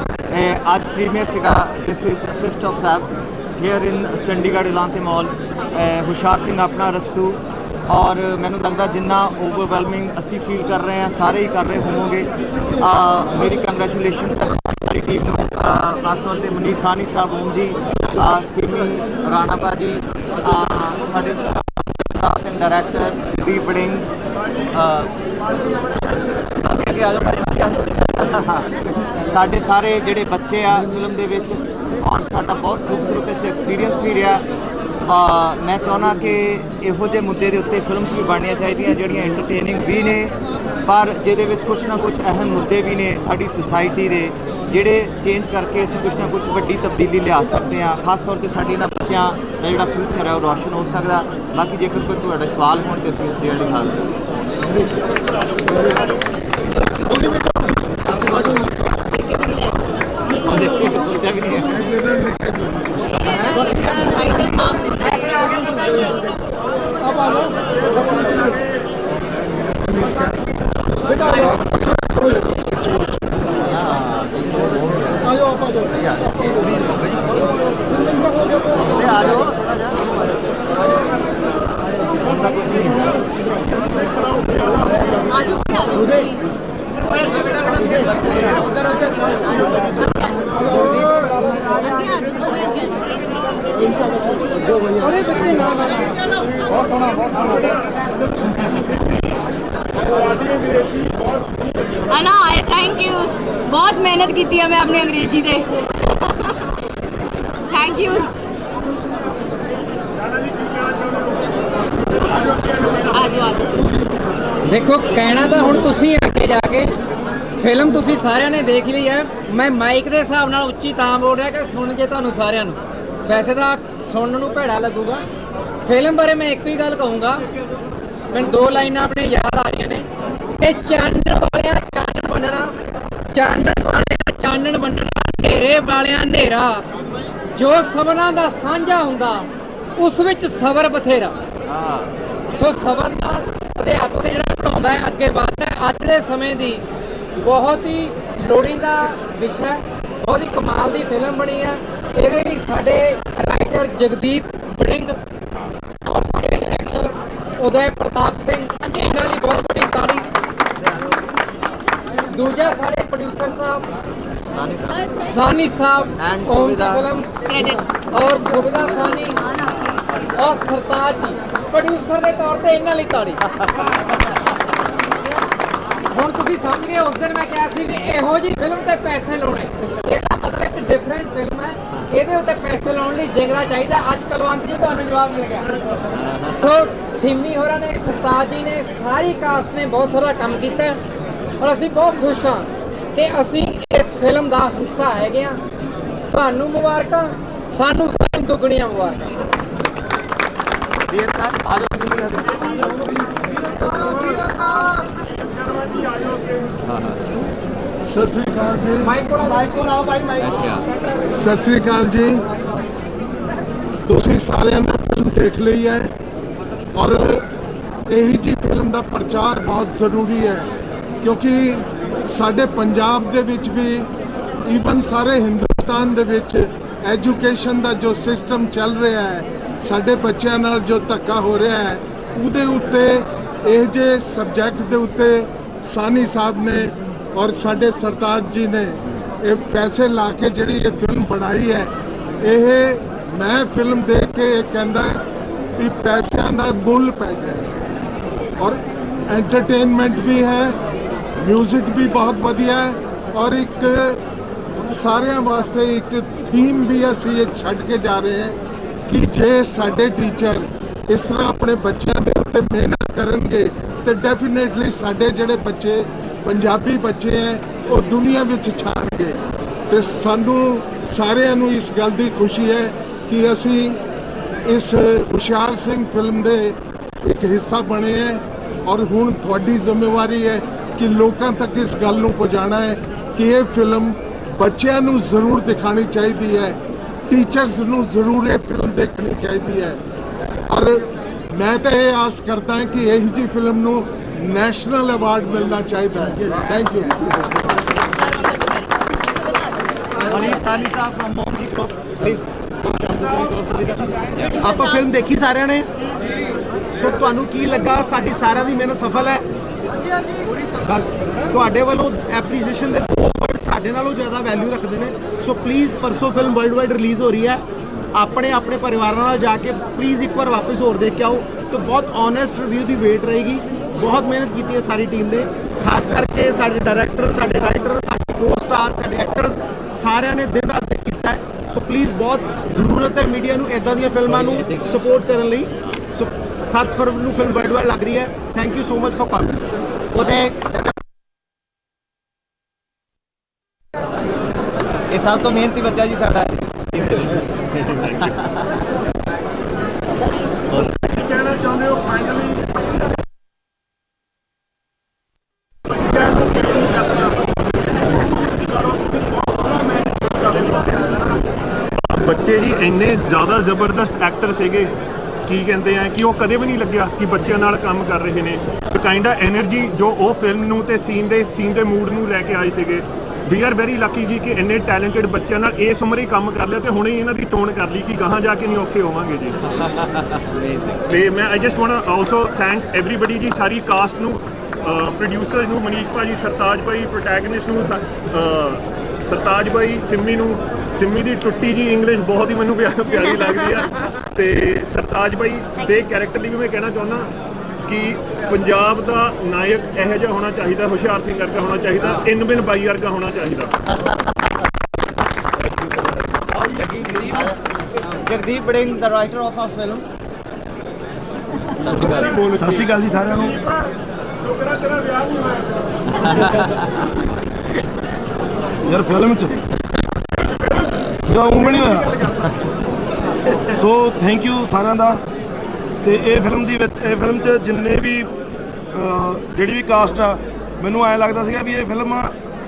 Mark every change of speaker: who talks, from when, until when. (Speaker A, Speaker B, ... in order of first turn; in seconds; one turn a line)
Speaker A: 0.3-12.3
Speaker A: 12.8-24.1
Speaker A: 24.7-25.1
Speaker A: 26.6-28.7
Speaker A: 29.3-34.4
Speaker A: 35.0-40.3
Speaker A: 40.9-54.0
Speaker B: 56.8-57.4
Speaker B: 58.6-60.0
Speaker A: 60.4-61.8
Speaker B: 63.0-65.8
Speaker A: 78.8-79.9
Speaker A: 82.1-83.2
Speaker B: 85.3-86.4
Speaker B: 90.0-93.0
Speaker B: 102.1-106.5
Speaker B: 107.7-108.4
Speaker B: 113.1-114.0
Speaker C: 114.6-116.9
Speaker C: 117.6-125.2
Speaker C: 125.8-127.4
Speaker C: 128.3-130.1
Speaker C: 130.6-132.7
Speaker C: 133.3-136.8
Speaker C: 137.5-141.4
Speaker A: 141.7-142.1
Speaker C: 142.6-146.8
Speaker C: 147.4-155.2
Speaker C: 156.1-160.2
Speaker C: 162.3-163.8
Speaker A: 164.5-165.1
Speaker C: 165.3-169.4
Speaker A: 166.2-167.0
Speaker B: 167.5-167.8
Speaker C: 170.3-173.4
Speaker C: 176.1-185.7
Speaker C: 186.5-191.0
Speaker C: 191.6-195.6
Speaker C: 196.3-199.2
Speaker A: 201.1-202.6
Speaker D: 211.4-212.4
Speaker D: 214.1-216.1
Speaker D: 216.9-217.4
Speaker D: 218.1-220.7
Speaker D: 221.2-224.1
Speaker D: 224.6-245.2
Speaker D: 245.8-247.7
Speaker D: 248.6-250.7
Speaker D: 251.4-254.2
Speaker D: 254.9-258.6
Speaker D: 259.1-269.4
Speaker D: 269.9-274.0
Speaker D: 274.7-286.8
Speaker D: 287.3-290.0
Speaker D: 291.5-297.1
Speaker B: 298.3-298.8
Speaker A: 300.3-304.5
Speaker B: 304.6-304.9
Speaker E: 304.6-305.9
Speaker E: 306.9-309.4
Speaker E: 310.8-317.6
Speaker E: 318.1-339.6
Speaker A: 340.1-340.9
Speaker A: 345.1-347.4
Speaker F: 362.1-364.9
Speaker F: 365.5-379.5
Speaker F: 381.1-397.3
Speaker F: 397.9-403.7
Speaker A: 408.2-410.1
Speaker G: 411.8-413.6
Speaker A: 411.9-412.2
Speaker G: 418.9-419.6
Speaker G: 421.3-422.3
Speaker G: 423.8-425.2
Speaker G: 426.0-428.3
Speaker G: 428.9-432.3